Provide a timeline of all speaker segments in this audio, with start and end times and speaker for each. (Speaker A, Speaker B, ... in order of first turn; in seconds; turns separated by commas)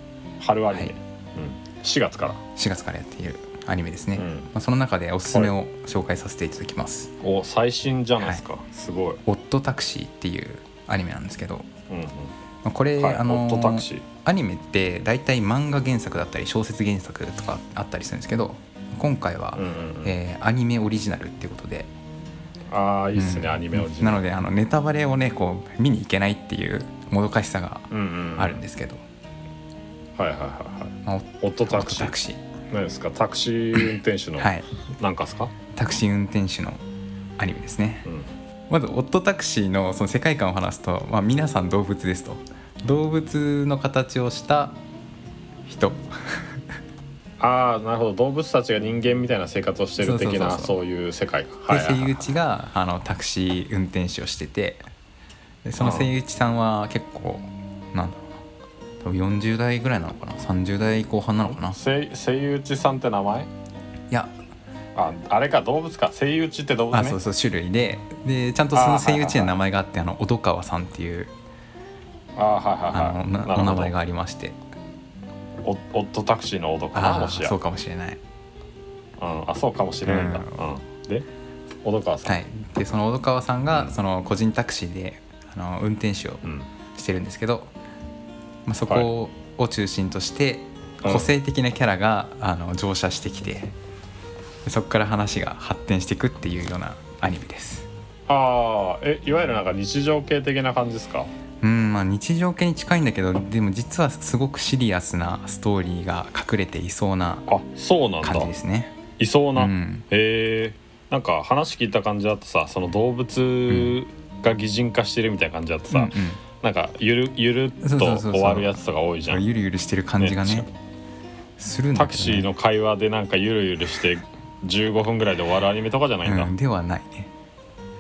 Speaker A: 0.4-2.4, Speaker B: 2.6-7.1, Speaker A: 4.1-4.5, Speaker A: 7.2-9.2, Speaker B: 9.3-11.7, Speaker A: 11.9-12.3, Speaker B: 12.6-21.9, Speaker A: 13.0-14.1, Speaker A: 19.5-20.1, Speaker A: 22.7-24.2, Speaker B: 23.1-29.0, Speaker A: 27.9-28.6, Speaker A: 30.2-32.1, Speaker B: 31.1-32.4, Speaker A: 32.7-35.5, Speaker B: 34.4-34.6, Speaker B: 35.7-36.8, Speaker B: 37.4-38.1, Speaker B: 38.7-44.8, Speaker B: 45.6-46.8, Speaker A: 47.4-52.3, Speaker B: 50.0-50.8, Speaker B: 51.7-54.8, Speaker B: 55.6-58.4, Speaker A: 55.8-56.1, Speaker B: 59.0-61.8, Speaker A: 61.5-63.5, Speaker B: 64.1-64.3, Speaker A: 65.0-67.2, Speaker B: 66.9-71.3, Speaker A: 68.7-69.5, Speaker A: 72.4-73.9, Speaker B: 72.9-74.6, Speaker A: 75.6-77.6, Speaker B: 76.9-78.2, Speaker A: 79.2-81.3, Speaker B: 80.1-80.7, Speaker A: 81.8-82.4, Speaker B: 82.3-87.7, Speaker B: 88.7-93.7, Speaker A: 91.0-91.3, Speaker B: 94.6-97.9, Speaker A: 98.3-101.3, Speaker B: 101.6-107.5, Speaker A: 107.5-108.5, Speaker B: 108.2-109.0, Speaker A: 109.2-119.4, Speaker B: 109.6-110.1, Speaker B: 115.9-116.4, Speaker B: 117.8-118.7, Speaker B: 119.3-120.7, Speaker A: 120.2-120.7, Speaker B: 121.6-122.5, Speaker A: 121.9-126.5, Speaker B: 126.2-127.3